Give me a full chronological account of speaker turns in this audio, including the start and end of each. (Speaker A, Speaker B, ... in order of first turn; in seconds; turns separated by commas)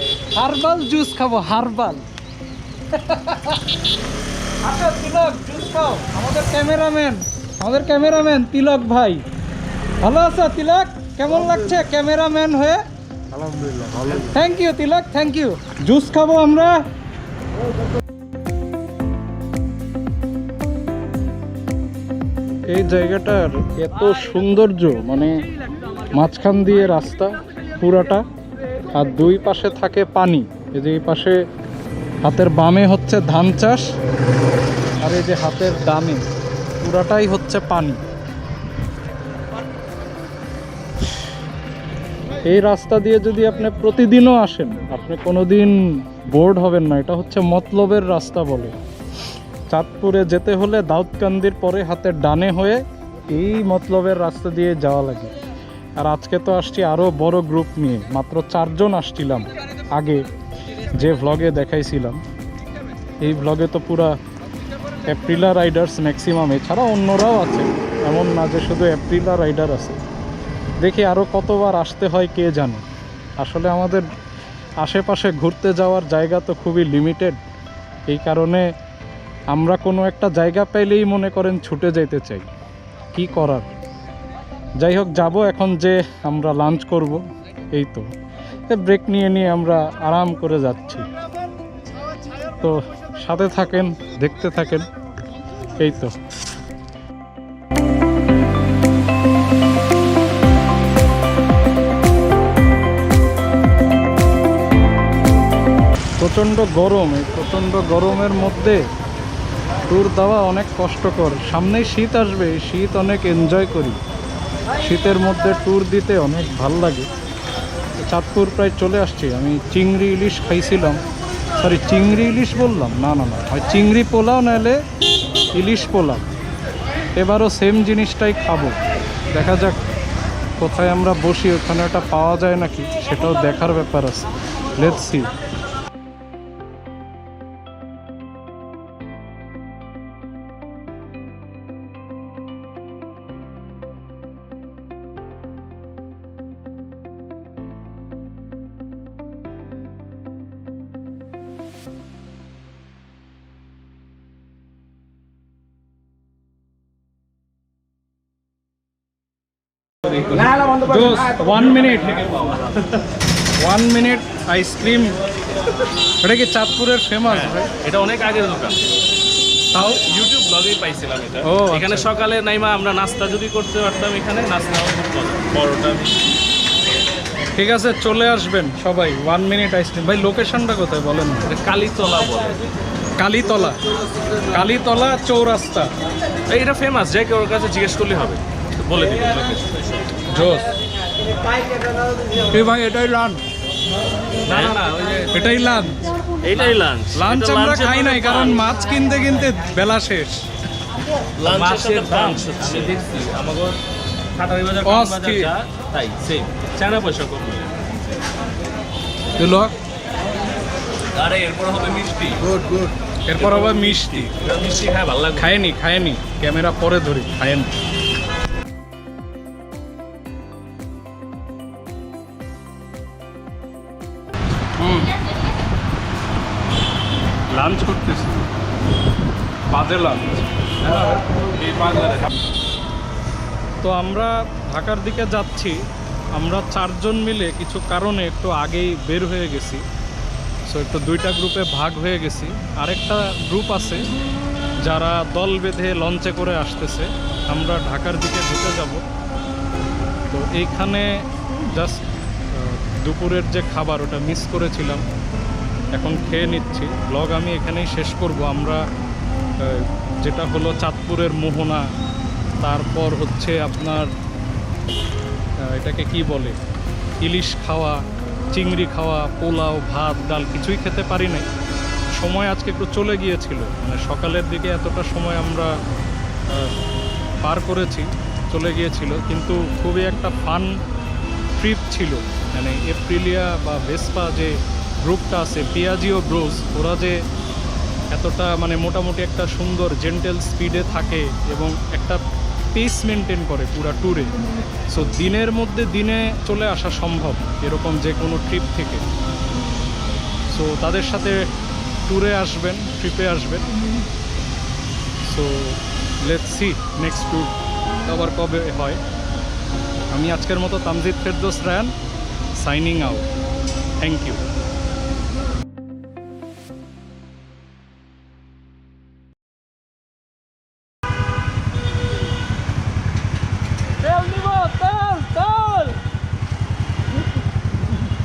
Speaker A: 0.3-2.1, Speaker A: 2.9-3.7, Speaker A: 4.6-9.2, Speaker A: 10.0-12.8, Speaker A: 13.4-16.9, Speaker A: 22.6-25.5, Speaker A: 26.1-28.2, Speaker A: 28.9-31.4, Speaker A: 32.2-33.9, Speaker A: 35.0-36.2, Speaker A: 36.8-38.0, Speaker A: 42.4-48.8, Speaker A: 49.7-55.4, Speaker A: 56.0-60.3, Speaker A: 60.9-62.2, Speaker A: 63.2-64.2, Speaker A: 65.0-70.0, Speaker A: 70.8-72.8, Speaker A: 73.4-74.1, Speaker A: 74.8-77.4, Speaker A: 78.1-78.7, Speaker A: 79.5-82.5, Speaker A: 83.1-83.7, Speaker A: 84.8-87.2, Speaker A: 87.7-88.1, Speaker A: 88.7-91.1, Speaker A: 92.6-94.9, Speaker A: 95.8-96.2, Speaker A: 106.2-108.9, Speaker A: 109.9-114.0, Speaker A: 114.8-117.1, Speaker A: 118.0-121.0, Speaker A: 121.5-124.8, Speaker A: 125.5-126.2, Speaker A: 127.2-128.8, Speaker A: 129.3-129.8, Speaker A: 130.6-135.3, Speaker A: 160.5-162.5, Speaker A: 163.6-165.2, Speaker A: 166.2-167.7, Speaker B: 167.3-168.9, Speaker A: 169.7-170.0, Speaker B: 169.8-176.2, Speaker A: 171.4-172.1, Speaker A: 177.5-181.5, Speaker B: 181.5-182.6, Speaker A: 183.2-183.8, Speaker A: 184.4-185.9, Speaker B: 186.5-190.2, Speaker A: 190.3-190.7, Speaker A: 192.4-193.4, Speaker B: 194.4-195.5, Speaker A: 195.3-196.0, Speaker B: 196.4-198.6, Speaker A: 197.1-200.4, Speaker B: 201.4-203.8, Speaker B: 204.3-208.0, Speaker A: 204.8-205.5, Speaker A: 209.4-209.7, Speaker B: 211.1-212.7, Speaker A: 213.3-214.3, Speaker B: 213.7-215.5, Speaker A: 215.3-217.7, Speaker A: 224.8-225.1, Speaker A: 227.5-228.5, Speaker A: 229.7-230.9, Speaker A: 233.8-235.8, Speaker A: 236.3-239.8, Speaker A: 240.7-244.1, Speaker A: 244.8-249.0, Speaker A: 250.3-255.0, Speaker A: 255.9-258.8, Speaker A: 259.6-261.9, Speaker A: 262.6-264.1, Speaker A: 265.6-266.6, Speaker A: 267.2-268.0, Speaker A: 268.5-271.5, Speaker A: 272.2-275.7, Speaker A: 277.4-280.8, Speaker A: 281.5-287.2, Speaker A: 288.1-292.2, Speaker A: 292.7-294.3, Speaker A: 294.9-299.0, Speaker A: 300.5-301.4, Speaker A: 302.0-303.7, Speaker A: 305.2-309.0, Speaker A: 310.1-311.9, Speaker A: 312.6-313.3, Speaker A: 314.0-314.4, Speaker A: 324.0-326.0